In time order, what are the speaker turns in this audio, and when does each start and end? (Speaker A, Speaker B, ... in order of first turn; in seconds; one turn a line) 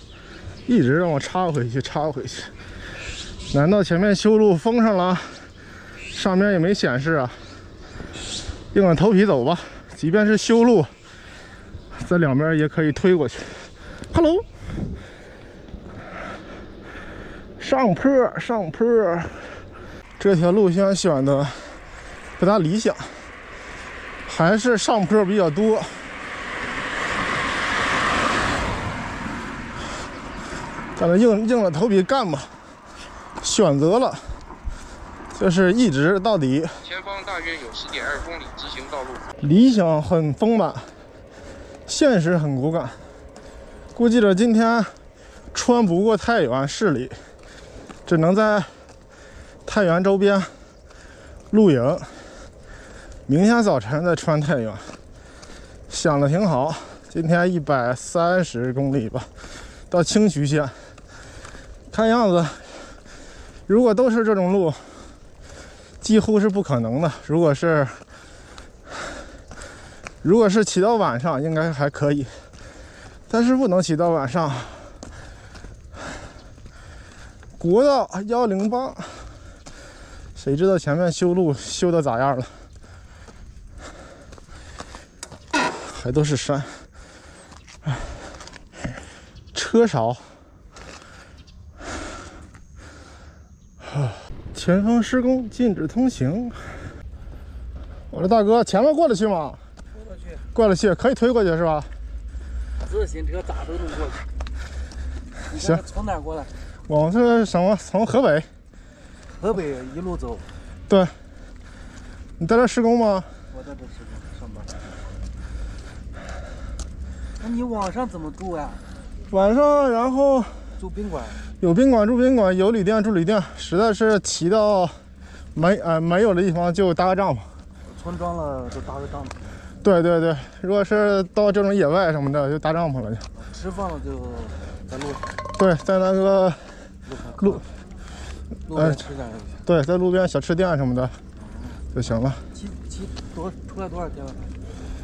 Speaker A: 0.7-2.5
Speaker A: 3.5-5.4
Speaker A: 6.1-7.4
Speaker A: 8.7-10.9
Speaker A: 11.9-14.4
Speaker A: 17.6-19.6
Speaker A: 20.2-21.8
Speaker A: 22.4-23.2
Speaker A: 24.3-26.1
Speaker A: 30.9-32.5
Speaker A: 33.4-34.3
Speaker A: 35.3-36.8
Speaker B: 36.8-39.3
Speaker A: 39.4-40.9
Speaker A: 41.9-43.0
Speaker A: 43.9-44.9
Speaker A: 45.5-47.1
Speaker A: 48.0-48.7
Speaker A: 49.6-50.5
Speaker A: 51.5-52.1
Speaker A: 53.3-54.9
Speaker A: 55.9-59.3
Speaker A: 59.9-60.8
Speaker A: 61.9-62.9
Speaker A: 63.7-65.0
Speaker A: 66.0-68.0
Speaker A: 70.2-72.3
Speaker A: 73.3-74.9
Speaker A: 77.6-79.3
Speaker A: 80.3-82.5
Speaker A: 85.7-86.8
Speaker A: 89.5-90.2
Speaker A: 93.8-96.7
Speaker A: 98.1-99.6
Speaker C: 100.0-100.4
Speaker A: 100.5-101.9
Speaker C: 102.8-104.3
Speaker C: 105.4-106.6
Speaker A: 106.9-108.5
Speaker C: 109.3-110.5
Speaker A: 110.9-111.1
Speaker A: 112.4-113.3
Speaker C: 113.5-114.9
Speaker C: 117.4-118.8
Speaker A: 119.3-120.6
Speaker C: 120.8-121.4
Speaker A: 121.6-125.0
Speaker A: 125.5-127.5
Speaker C: 127.9-129.6
Speaker A: 129.8-133.3
Speaker C: 133.4-135.3
Speaker A: 135.6-136.7
Speaker C: 137.1-137.6
Speaker A: 137.4-137.6
Speaker C: 138.7-139.6
Speaker A: 138.7-139.0
Speaker A: 139.6-141.2
Speaker C: 141.4-141.8
Speaker A: 141.9-142.4
Speaker C: 142.5-144.5